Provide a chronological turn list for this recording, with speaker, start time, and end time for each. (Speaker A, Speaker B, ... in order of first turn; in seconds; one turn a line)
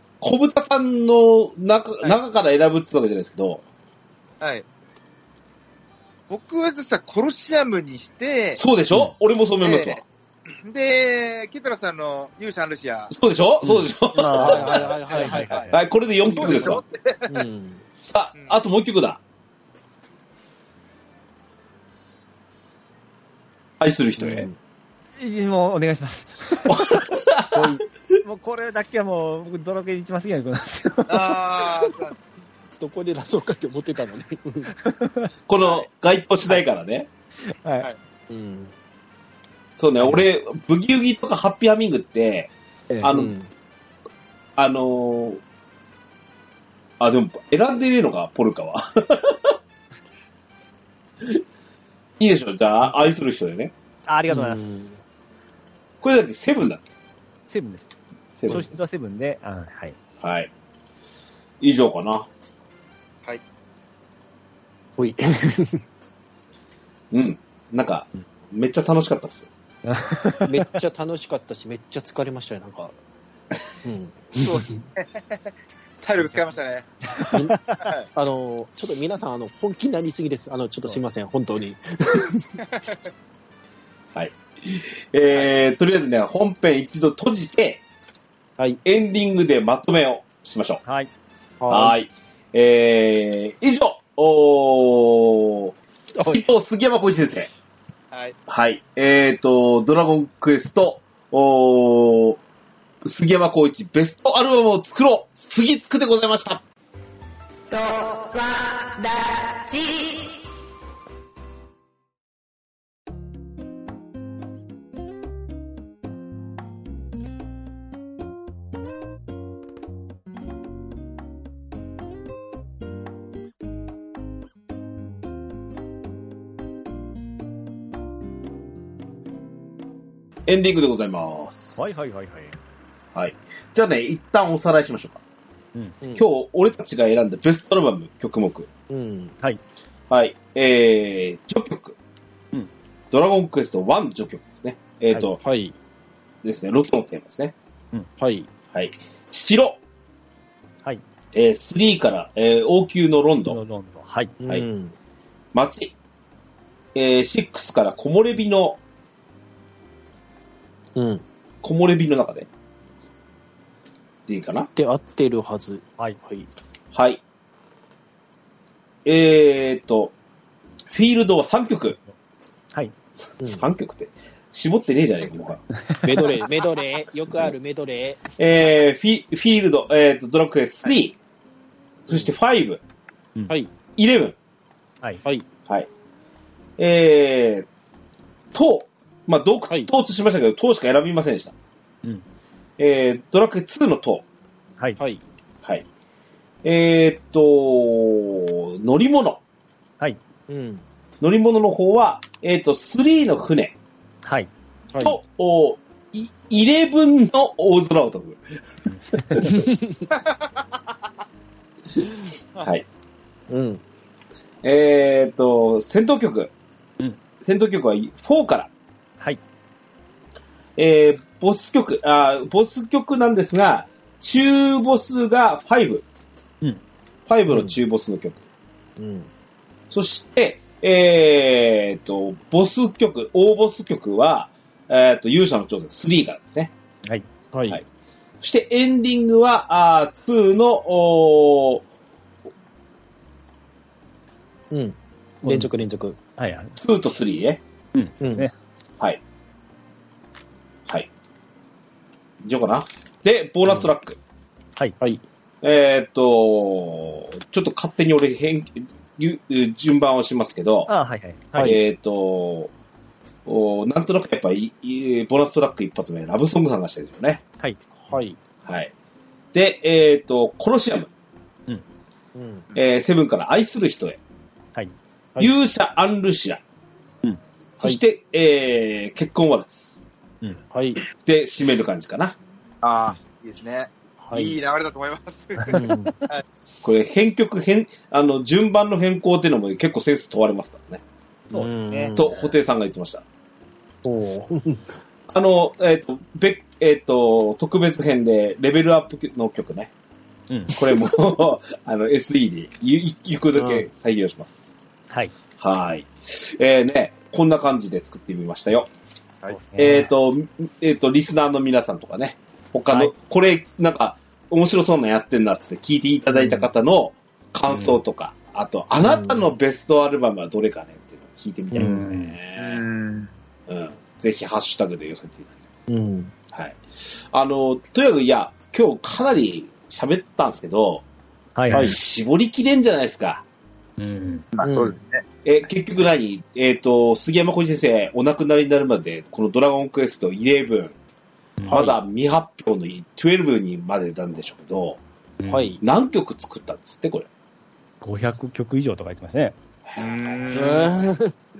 Speaker A: 0.2-3.6
Speaker B: 4.4-4.7
Speaker B: 6.3-8.6
Speaker A: 8.6-10.0
Speaker B: 9.6-10.0
Speaker B: 10.6-13.1
Speaker A: 13.1-14.9
Speaker C: 13.7-17.9
Speaker D: 14.1-15.8
Speaker A: 15.7-16.8
Speaker B: 16.2-17.4
Speaker A: 18.0-19.2
Speaker A: 23.8-24.5
Speaker C: 24.2-24.6
Speaker D: 25.2-26.9
Speaker A: 26.6-28.1
Speaker C: 27.5-27.9
Speaker D: 28.2-31.4
Speaker B: 31.1-32.1
Speaker C: 32.8-34.7
Speaker D: 34.8-35.3
Speaker A: 35.5-37.1
Speaker D: 37.4-37.9
Speaker C: 38.3-38.7
Speaker A: 39.8-42.5
Speaker C: 43.0-43.5
Speaker A: 43.0-43.3
Speaker A: 44.6-45.4
Speaker A: 47.0-49.6
Speaker A: 52.2-53.7
Speaker D: 54.1-54.7
Speaker C: 54.3-55.0
Speaker A: 56.0-56.8
Speaker D: 57.5-57.9
Speaker A: 58.4-58.7
Speaker D: 58.5-60.0
Speaker A: 60.2-60.5
Speaker A: 61.6-62.3
Speaker C: 65.0-65.8
Speaker A: 67.1-69.5
Speaker D: 69.9-70.6
Speaker C: 70.4-72.9
Speaker C: 73.8-74.8
Speaker B: 74.4-75.4
Speaker B: 76.0-76.9
Speaker D: 77.2-77.8
Speaker C: 77.3-77.6
Speaker B: 77.8-78.1
Speaker C: 78.1-82.6
Speaker A: 84.1-87.8
Speaker A: 88.8-90.8
Speaker C: 91.6-91.9
Speaker A: 91.7-97.5
Speaker C: 96.1-96.4
Speaker B: 98.1-98.4
Speaker A: 98.5-102.4
Speaker A: 103.0-106.6
Speaker E: 107.7-110.4
Speaker A: 130.5-131.8
Speaker D: 131.8-132.6
Speaker A: 133.1-135.2
Speaker A: 136.2-138.7
Speaker C: 138.9-139.4
Speaker A: 140.1-142.0
Speaker A: 143.1-145.4
Speaker C: 145.1-145.8
Speaker A: 146.4-147.5
Speaker C: 148.2-148.5
Speaker A: 148.7-149.8
Speaker A: 151.3-153.6
Speaker D: 153.5-154.3
Speaker C: 154.4-154.9
Speaker A: 155.5-155.9
Speaker A: 156.9-158.8
Speaker C: 160.9-161.2
Speaker A: 161.6-162.5
Speaker A: 164.3-164.7
Speaker C: 164.7-166.5
Speaker A: 166.9-167.2
Speaker A: 169.1-170.1
Speaker A: 170.9-172.0
Speaker C: 173.4-173.7
Speaker A: 173.4-175.6
Speaker D: 175.8-176.2
Speaker C: 176.0-178.4
Speaker A: 178.4-181.2
Speaker A: 182.1-182.8
Speaker A: 184.0-184.4
Speaker A: 186.8-187.7
Speaker A: 188.5-191.5
Speaker A: 192.8-194.2
Speaker A: 196.6-199.4
Speaker C: 200.5-200.8
Speaker A: 201.2-203.8
Speaker D: 204.2-204.5
Speaker A: 205.0-208.4
Speaker D: 208.9-209.5
Speaker A: 209.1-209.6
Speaker C: 209.4-210.0
Speaker C: 213.5-213.8
Speaker A: 214.6-216.5
Speaker A: 217.4-218.7
Speaker A: 220.8-226.0
Speaker A: 227.3-228.4
Speaker C: 227.5-227.8
Speaker C: 229.0-229.3
Speaker A: 229.9-236.7
Speaker C: 237.5-237.8
Speaker A: 238.4-241.8
Speaker C: 244.7-246.2
Speaker D: 245.4-245.8
Speaker D: 246.4-246.8
Speaker A: 246.8-247.6
Speaker D: 247.9-248.5
Speaker C: 248.2-248.5
Speaker A: 252.4-254.2
Speaker A: 255.6-260.9
Speaker D: 260.9-261.8
Speaker A: 261.6-262.7
Speaker A: 263.4-267.4
Speaker C: 268.1-268.4
Speaker A: 268.6-268.9
Speaker A: 269.5-271.1
Speaker C: 272.4-272.7
Speaker A: 272.8-274.2
Speaker A: 275.4-276.6
Speaker A: 277.8-280.0
Speaker C: 280.7-281.0
Speaker A: 281.2-282.4
Speaker B: 282.8-286.5
Speaker C: 284.2-284.6
Speaker D: 285.6-286.3
Speaker C: 285.7-286.1
Speaker A: 286.8-291.0
Speaker D: 291.5-292.2
Speaker C: 291.5-292.4
Speaker A: 292.1-293.2
Speaker C: 294.0-294.9
Speaker A: 295.3-299.9
Speaker D: 300.5-300.8
Speaker A: 300.7-304.6
Speaker C: 303.5-303.9
Speaker A: 305.6-308.9
Speaker D: 309.5-310.1
Speaker A: 309.8-322.9
Speaker C: 316.3-316.7
Speaker D: 317.7-318.0
Speaker C: 319.0-319.5
Speaker C: 321.7-322.0
Speaker D: 321.8-322.4
Speaker B: 322.6-323.3
Speaker A: 323.7-325.5
Speaker C: 325.9-326.3
Speaker A: 326.5-331.0
Speaker D: 331.6-332.0
Speaker C: 331.7-332.0
Speaker A: 331.7-333.4
Speaker D: 334.0-334.5
Speaker B: 334.5-335.2
Speaker C: 334.6-334.9
Speaker A: 335.4-340.9
Speaker D: 341.6-341.9
Speaker C: 341.7-342.0
Speaker A: 341.7-345.0
Speaker D: 345.4-345.7
Speaker C: 345.5-345.8
Speaker A: 345.8-347.3
Speaker D: 348.0-349.6
Speaker A: 349.9-350.9
Speaker B: 350.0-351.0
Speaker C: 350.5-351.3